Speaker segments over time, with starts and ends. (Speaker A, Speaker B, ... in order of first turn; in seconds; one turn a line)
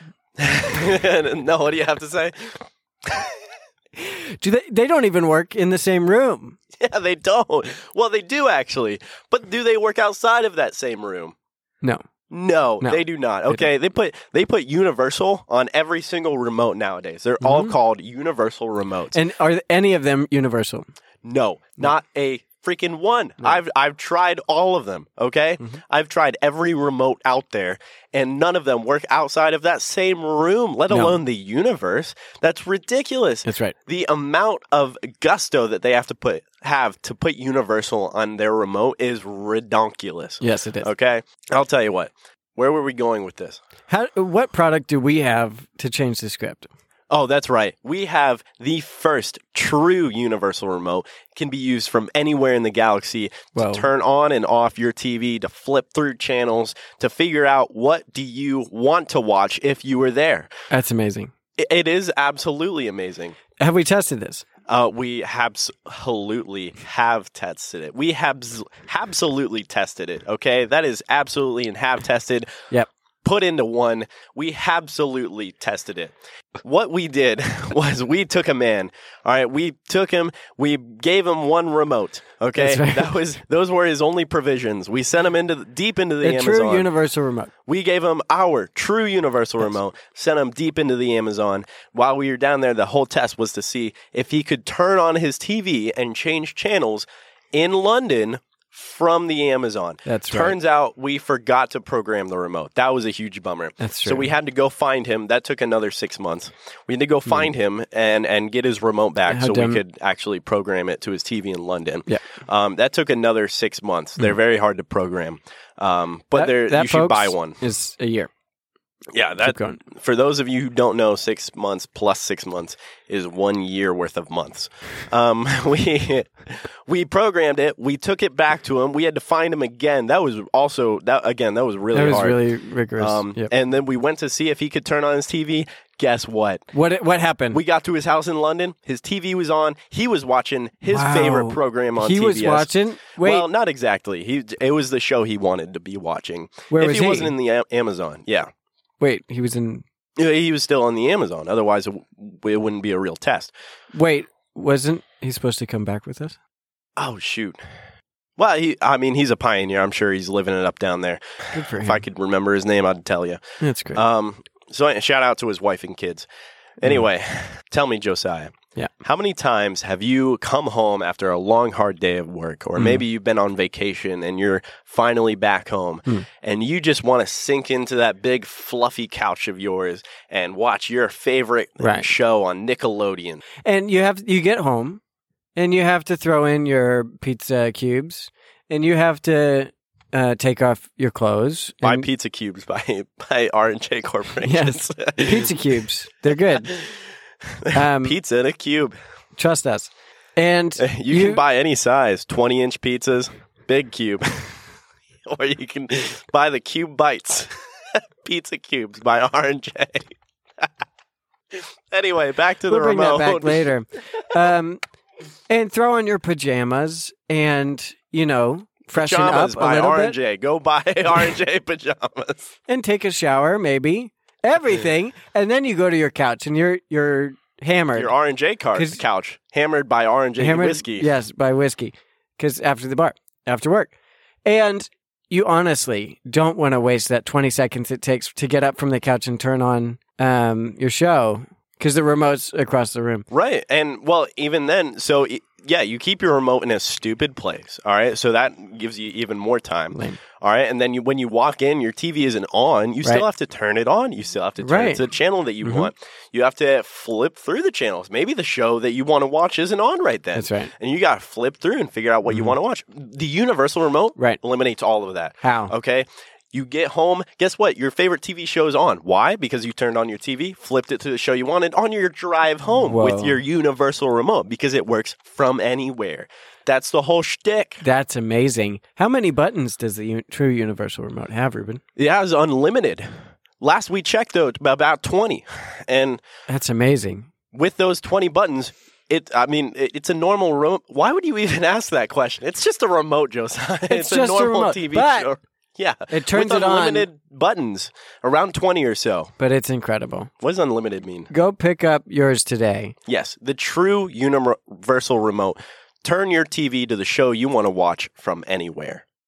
Speaker A: 0.4-3.3
Speaker B: 4.0-6.6
Speaker A: 6.8-11.3
Speaker A: 12.3-19.2
Speaker B: 12.8-13.7
Speaker B: 17.4-17.7
Speaker B: 19.1-20.9
Speaker A: 21.2-43.6
Speaker B: 30.9-31.2
Speaker B: 33.5-33.7
Speaker B: 40.4-40.9
Speaker B: 43.9-46.7
Speaker A: 47.1-60.5
Speaker B: 53.5-53.9
Speaker B: 60.7-61.3
Speaker A: 61.6-63.4
Speaker B: 63.6-64.5
Speaker A: 64.7-72.5
Speaker A: 73.2-86.9
Speaker B: 82.6-83.1
Speaker B: 86.2-87.5
Speaker A: 87.7-117.6
Speaker B: 100.0-100.6
Speaker B: 103.8-104.3
Speaker B: 109.3-109.8
Speaker B: 116.3-118.3
Speaker A: 119.1-132.4
Speaker B: 119.4-119.8
Speaker B: 131.9-133.5
Speaker A: 133.0-136.7
Speaker B: 136.7-137.6
Speaker A: 137.5-148.5
Speaker B: 140.9-143.5
Speaker B: 146.7-147.3
Speaker B: 149.0-149.8
Speaker A: 150.2-153.5
Speaker B: 153.9-156.4
Speaker A: 157.0-157.6
Speaker A: 158.4-163.4
Speaker B: 161.5-162.0
Speaker B: 163.6-164.0
Speaker A: 163.9-166.3
Speaker A: 166.8-183.4
Speaker B: 172.8-173.0
Speaker B: 181.8-182.1
Speaker B: 183.6-185.0
Speaker B: 185.6-192.1
Speaker A: 191.8-195.6
Speaker B: 194.4-196.8
Speaker A: 197.6-198.9
Speaker B: 197.7-198.2
Speaker B: 199.4-201.4
Speaker A: 200.8-204.6
Speaker A: 205.3-207.5
Speaker A: 208.2-210.7
Speaker A: 211.5-213.7
Speaker B: 212.7-214.8
Speaker B: 215.5-220.2
Speaker A: 218.9-222.5
Speaker B: 222.7-228.1
Speaker A: 227.9-231.1
Speaker B: 228.8-229.0
Speaker B: 230.4-233.9
Speaker B: 234.4-243.3
Speaker A: 243.3-277.8
Speaker B: 249.9-250.2
Speaker B: 254.6-255.0
Speaker B: 255.6-255.9
Speaker B: 260.4-260.7
Speaker B: 262.3-262.6
Speaker B: 265.4-265.7
Speaker B: 272.8-273.4
Speaker B: 277.8-281.8
Speaker A: 282.0-283.1
Speaker A: 283.6-286.2
Speaker B: 286.5-287.3
Speaker A: 287.5-299.3
Speaker B: 293.9-295.3
Speaker B: 296.1-297.1
Speaker B: 299.4-300.3
Speaker A: 300.4-301.3
Speaker B: 301.3-302.9
Speaker A: 303.1-309.1